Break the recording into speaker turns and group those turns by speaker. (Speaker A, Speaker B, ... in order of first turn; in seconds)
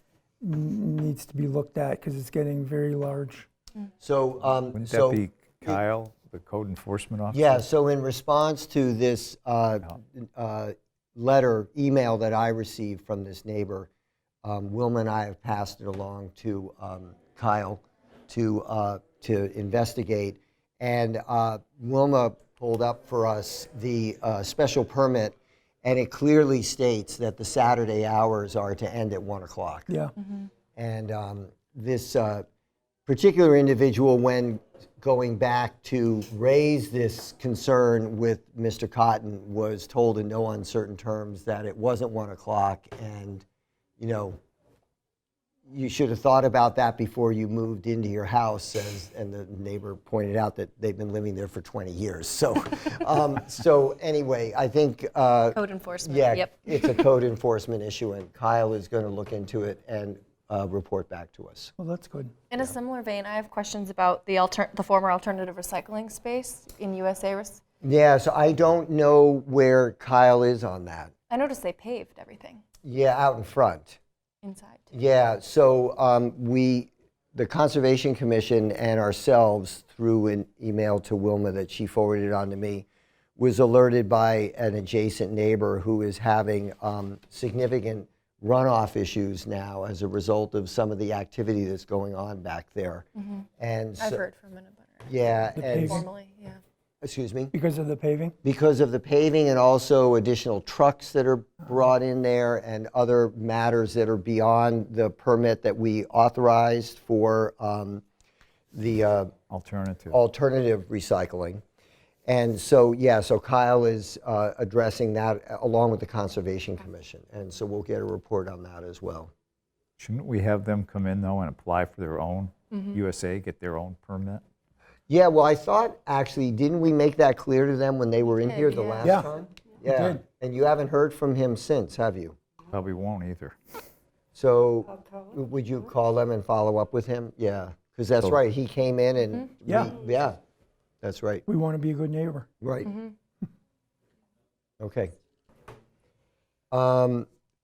Speaker A: 0.4-3.5, 29.9-30.1, 61.8-62.3, 95.5-96.0, 97.5-98.3, 129.0-129.3, 129.9-130.2, 139.6-139.9, 141.4-142.5
Speaker B: 4.0-5.8, 7.3-13.9, 14.4-29.9, 30.7-32.5, 33.0-43.4, 44.0-44.4, 45.7-61.7, 67.8-71.1, 72.8-74.0, 74.9-82.8, 83.4-93.1, 93.6-94.2, 95.1-96.0, 97.0-97.5, 98.4-108.0, 108.7-109.3, 110.1-111.6, 112.2-119.3, 125.1-132.4, 134.3-140.4, 141.0-141.4, 142.6-143.0, 144.8-145.1, 146.7-147.3
Speaker C: 4.7-7.6, 109.5-110.2, 120.0-124.4, 132.7-133.6
Speaker D: 55.5-57.0, 62.5-67.6, 71.3-72.6, 74.4-74.9, 93.2-93.4, 94.0-96.6, 122.7-123.0, 128.3-129.2, 142.9-143.1